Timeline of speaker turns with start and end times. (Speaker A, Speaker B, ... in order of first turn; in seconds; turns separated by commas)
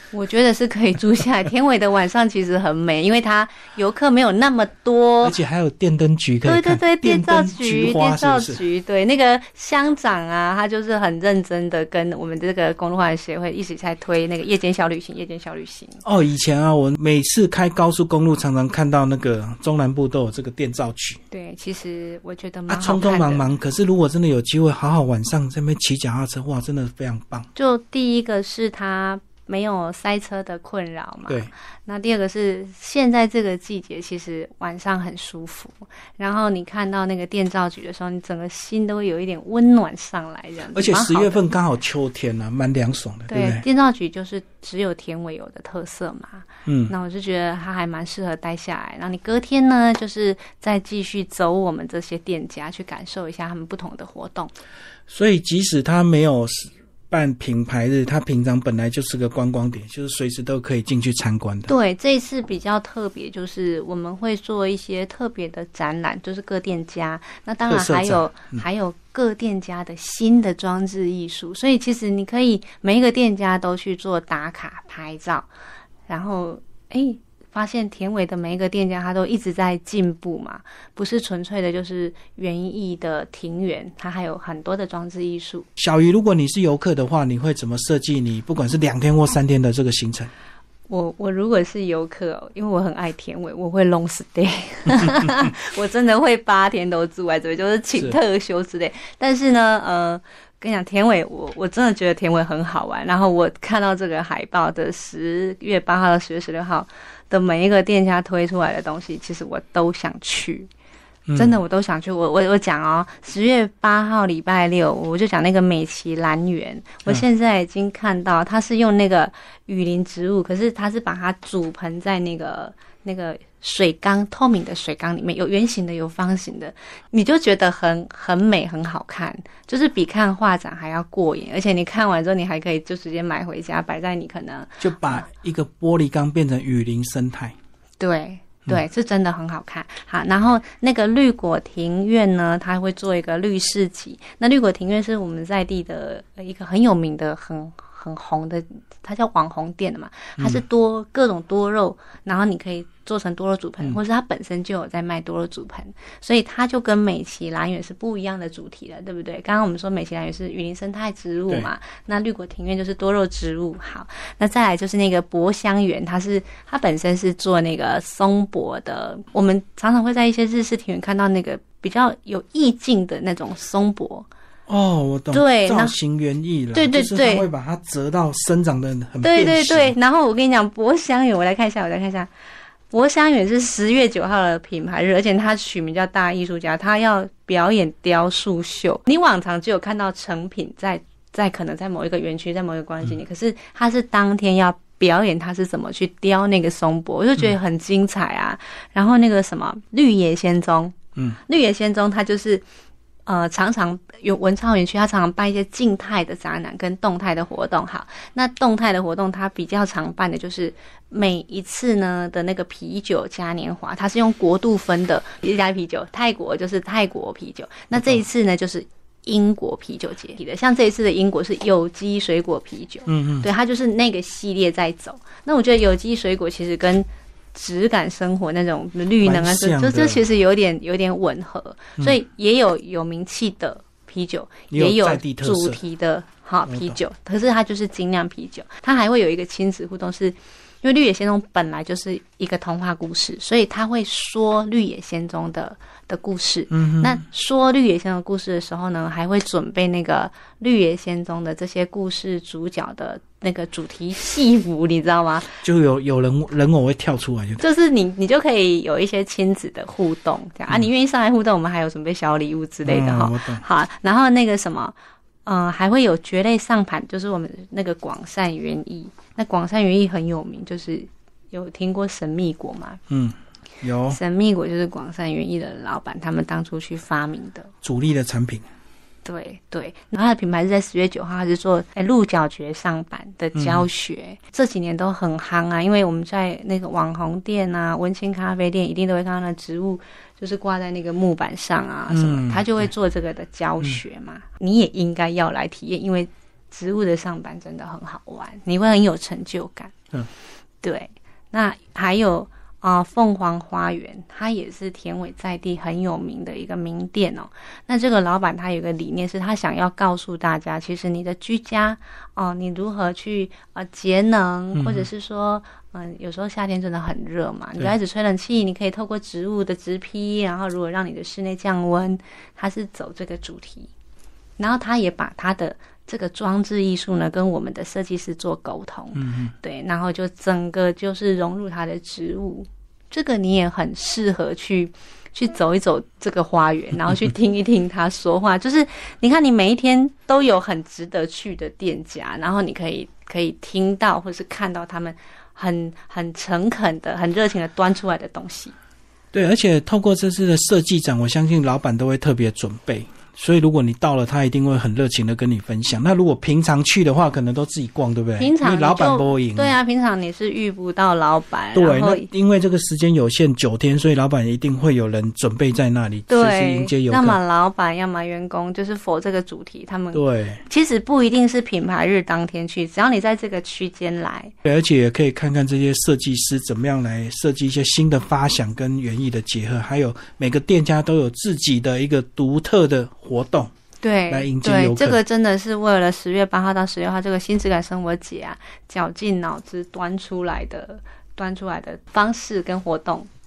Speaker A: 0.1-5.3, Speaker B: 5.2-8.6, Speaker A: 6.4-16.0, Speaker B: 16.0-21.2, Speaker A: 21.3-23.4, Speaker B: 22.7-27.5, Speaker A: 27.6-41.5, Speaker B: 40.7-43.6, Speaker A: 43.3-54.5, Speaker B: 46.6-46.9, Speaker B: 55.1-61.7, Speaker A: 61.7-75.5, Speaker B: 67.6-68.6, Speaker A: 76.1-85.7, Speaker B: 85.8-90.3, Speaker A: 90.9-110.7, Speaker B: 111.3-111.6, Speaker A: 111.3-135.2, Speaker B: 134.8-137.5, Speaker A: 138.0-174.3, Speaker B: 174.7-179.9, Speaker A: 175.3-175.9, Speaker A: 176.7-177.5, Speaker A: 179.2-182.3, Speaker A: 182.9-200.9, Speaker A: 201.5-202.6, Speaker A: 203.3-255.6, Speaker B: 217.9-218.2, Speaker B: 223.1-223.5, Speaker B: 229.2-230.2, Speaker B: 234.7-235.8, Speaker B: 236.7-237.0, Speaker B: 246.7-247.2, Speaker B: 255.6-257.6, Speaker A: 257.6-264.9, Speaker B: 262.8-263.6, Speaker A: 265.4-273.0, Speaker B: 273.1-274.2, Speaker A: 274.1-277.7, Speaker B: 277.8-278.6, Speaker A: 279.2-299.9, Speaker B: 283.5-283.9, Speaker B: 292.1-292.9, Speaker A: 300.8-323.9, Speaker B: 314.7-315.1, Speaker A: 324.6-348.7, Speaker B: 329.1-329.5, Speaker B: 349.3-359.8, Speaker A: 358.4-362.3, Speaker B: 361.7-367.4, Speaker A: 366.3-374.5, Speaker B: 370.1-370.6, Speaker B: 374.6-383.7, Speaker A: 384.0-393.3, Speaker B: 384.3-385.2